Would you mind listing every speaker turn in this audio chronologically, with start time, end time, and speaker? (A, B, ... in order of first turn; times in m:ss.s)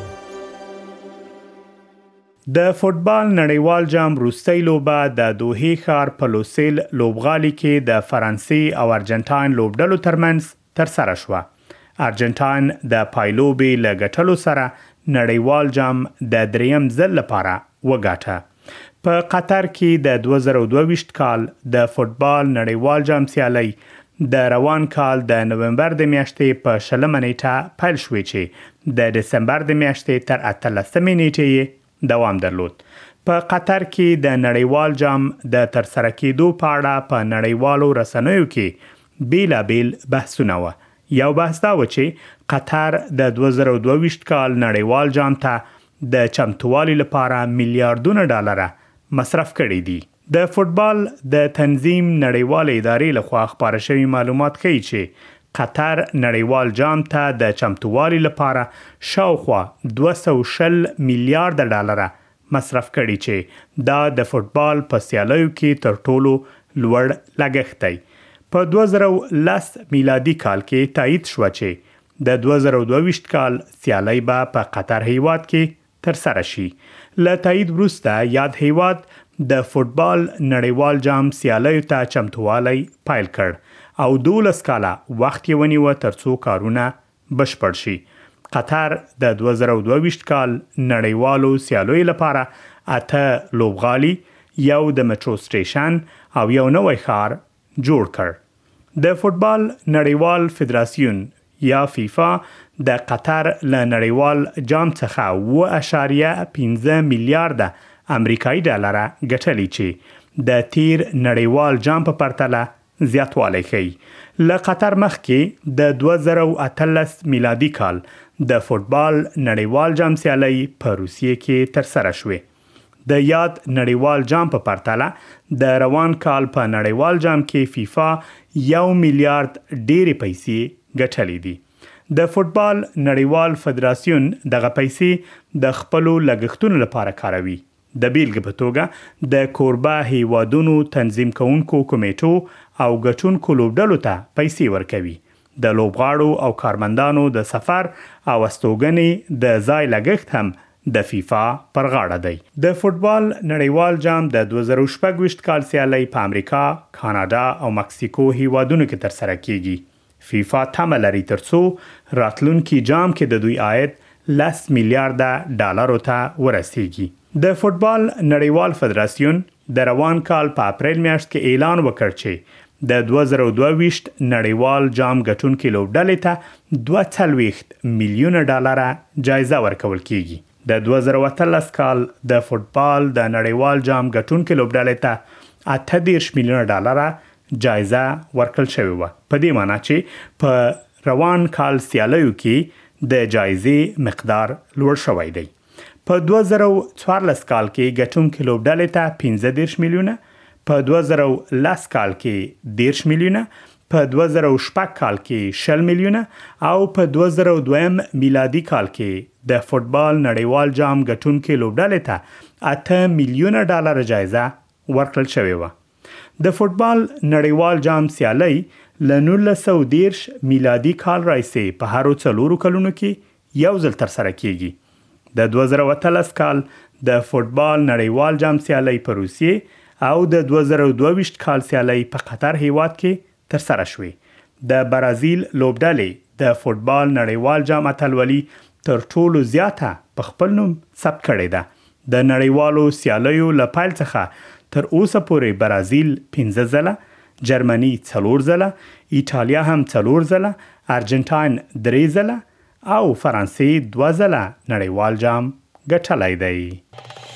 0:02.5-0:11.5 A
0:12.0-0:18.4 A
0:19.0-1:38.4 A
1:39.0-2:02.4 A
2:03.0-3:15.5 A
3:16.0-3:35.7 A
3:36.4-3:44.8 A
3:45.3-4:16.8 A